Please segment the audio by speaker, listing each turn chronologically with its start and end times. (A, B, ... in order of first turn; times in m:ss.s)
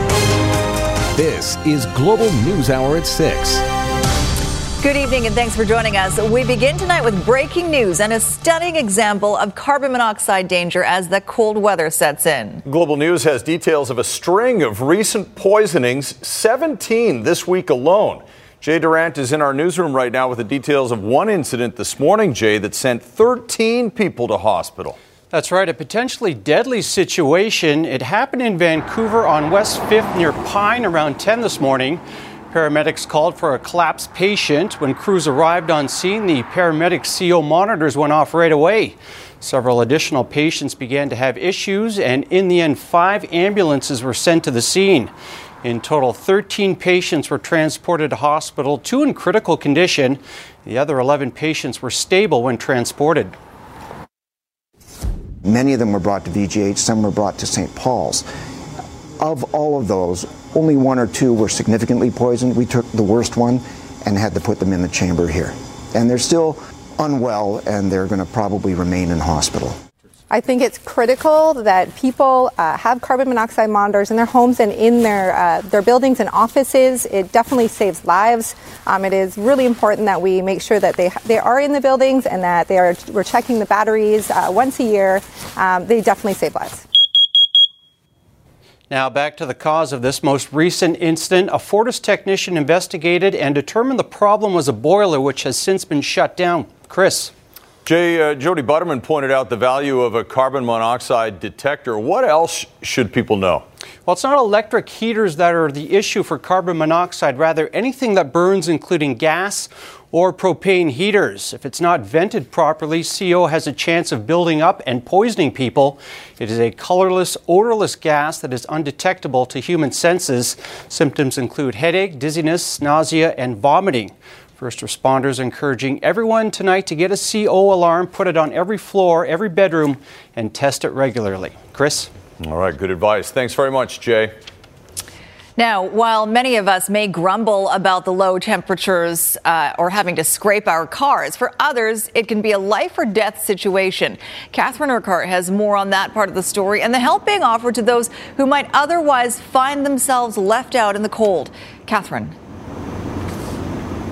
0:01.2-0:03.6 A
0:04.8-0:12.6 B
0:12.6-0:25.0 C
0:25.3-0:53.3 D
0:55.4-0:58.2 E
0:59.2-1:09.8 E
1:10.3-1:26.8 F
1:28.9-1:37.3 D
1:37.9-1:43.6 C
1:44.1-2:12.1 D
2:12.4-2:14.3 C
2:15.6-2:32.3 B